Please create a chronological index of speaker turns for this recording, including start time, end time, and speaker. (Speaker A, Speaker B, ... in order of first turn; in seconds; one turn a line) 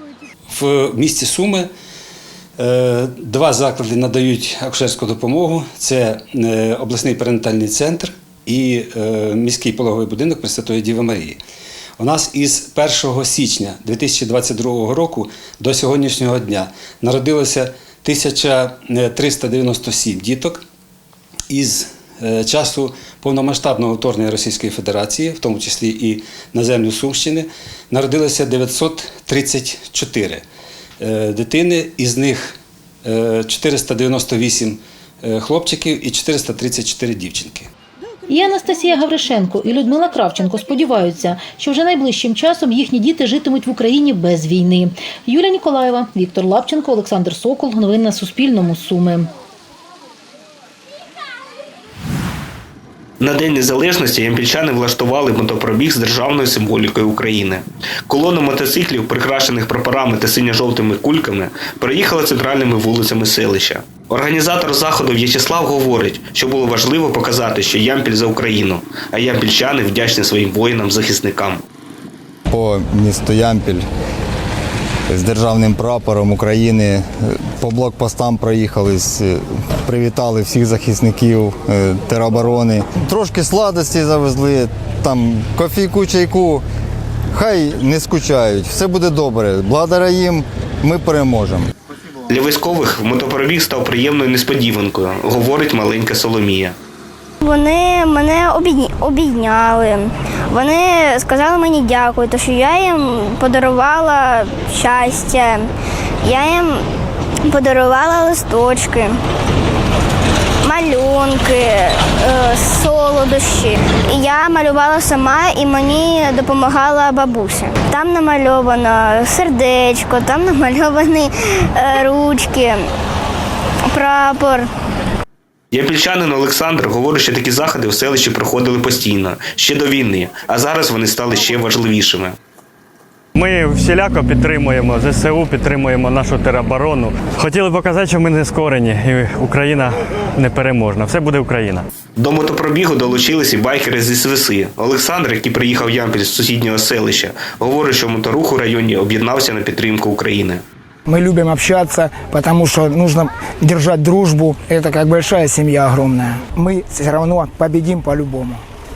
Speaker A: 0.5-1.6
Speaker A: 2.6-11.4
Speaker A: 12.0-20.6
Speaker A: 21.5-30.4
Speaker A: 31.0-32.5
Speaker A: 33.1-37.7
Speaker B: 38.3-49.3
Speaker C: 53.2-71.6
Speaker D: 72.5-73.8
Speaker D: 75.1-86.6
Speaker D: 87.3-91.7
Speaker C: 92.3-96.8
Speaker E: 97.4-105.7
Speaker E: 106.2-106.8
Speaker E: 107.5-109.2
Speaker E: 110.6-122.9
Speaker E: 123.9-124.7
Speaker C: 125.7-132.4
Speaker F: 133.3-141.9
Speaker C: 142.2-150.6
Speaker G: 151.1-158.6